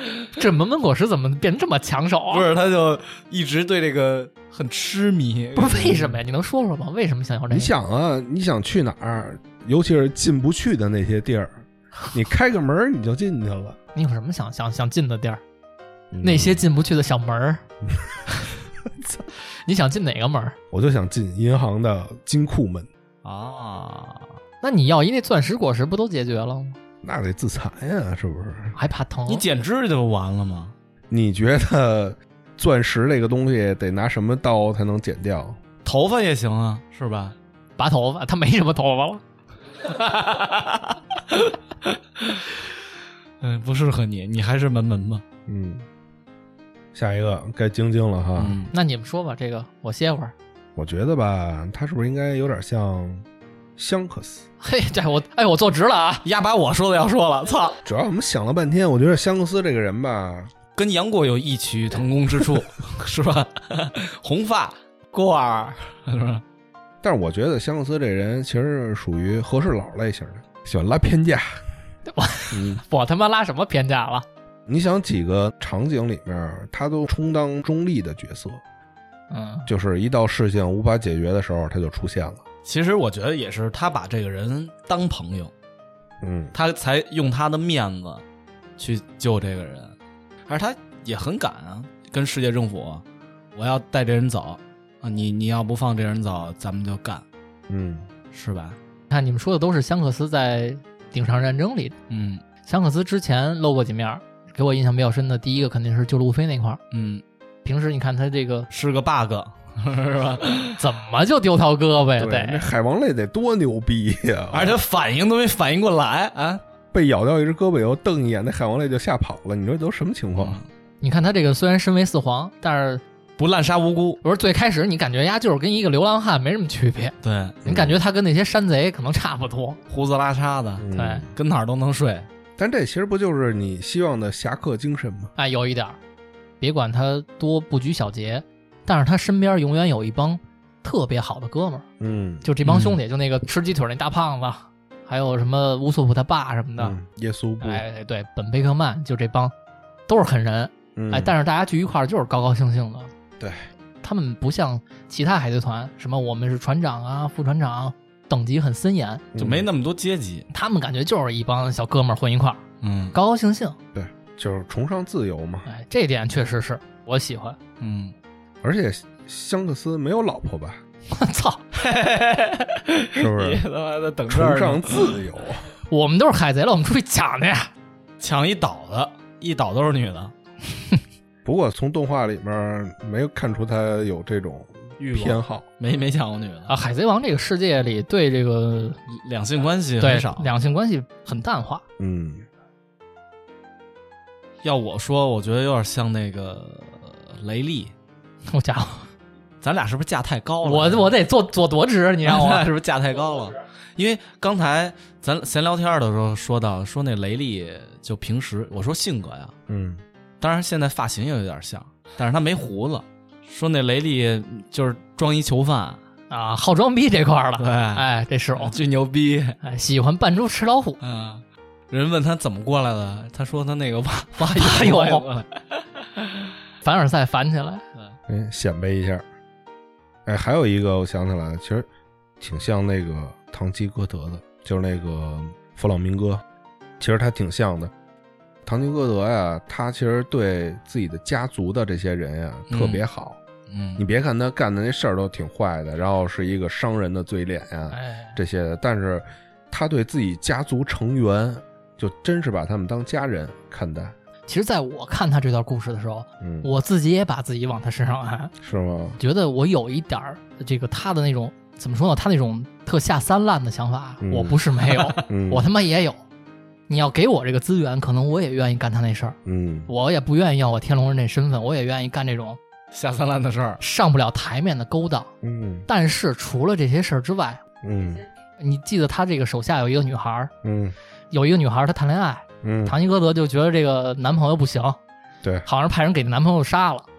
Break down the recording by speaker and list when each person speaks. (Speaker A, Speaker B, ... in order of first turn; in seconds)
Speaker A: 0.3-2.5, 5.5-7.7, 13.9-15.4, 16.2-17.6, 19.6-20.6, 24.6-26.8, 28.8-29.4, 37.8-39.2, 48.7-50.3, 54.6-56.2, 72.1-74.2, 79.3-79.7, 99.1-101.9, 102.6-106.8, 107.6-108.7, 110.8-112.6, 121.0-123.0, 124.2-129.8, 130.9-131.2, 135.4-136.0, 136.6-141.8, 142.4-146.9, 147.6-149.5, 150.1-153.1, 154.0-159.2, 160.5-162.6, 163.1-163.8, 165.7-167.6, 171.1-171.6, 175.9-177.7, 186.7-189.0, 190.0-191.8, 198.5-199.1, 200.6-202.7, 216.3-218.8, 219.6-221.0, 224.4-225.3, 226.8-227.8, 247.9-248.4, 254.5-258.5, 259.2-266.2, 266.9-269.4, 269.9-272.6, 273.8-275.3, 275.9-277.6, 278.6-280.5, 281.3-285.0, 285.6-287.1
Speaker B: 2.3-6.0, 23.2-24.3, 29.3-30.7, 35.8-37.4, 39.9-42.6, 43.4-45.2, 48.4-48.7, 56.2-57.8, 60.8-66.4, 82.6-85.5, 86.5-88.2, 88.8-89.9, 90.5-93.0, 93.5-97.2, 98.3-98.8, 102.1-102.4, 106.9-107.2, 108.7-110.8, 114.5-116.6, 120.3-120.7, 123.4-124.2, 127.2-127.6, 129.9-132.3, 142.6-143.0, 159.4-160.5, 162.8-163.1, 167.8-168.1, 171.7-175.2, 178.2-180.3, 185.0-186.7, 189.1-190.5, 194.6-197.9, 199.6-201.1, 202.2-209.5, 210.4-216.0, 217.6-219.6, 221.0-226.3, 242.7-243.0, 243.7-244.0, 264.9-265.2, 272.9-273.8
Speaker C: 5.7-6.1, 7.5-13.8, 16.1-16.6, 20.7-22.9, 27.0-28.8, 31.1-35.6, 45.5-45.9, 46.9-48.6, 50.8-53.2, 53.8-54.4, 57.9-60.5, 67.0-71.6, 72.5-72.8, 74.7-78.6, 79.7-82.4, 86.2-86.5, 97.7-98.1, 112.2-114.8, 116.9-120.6, 127.6-128.0, 130.8-131.3, 132.6-135.3, 142.0-142.5, 146.8-147.8, 150.9-151.3, 153.4-153.6, 159.3-159.7, 163.9-165.7, 168.6-170.8, 173.1-173.6, 174.3-175.7, 181.4-185.6, 192.0-192.4, 209.7-210.0, 228.3-229.2, 230.2-231.9, 232.4-236.4, 237.0-237.9, 238.6-243.4, 244.0-254.1, 256.4-256.7, 258.6-259.2, 264.2-264.6, 265.3-265.7, 269.4-269.9, 275.4-275.9, 277.8-278.2, 280.6-280.9, 282.6-282.9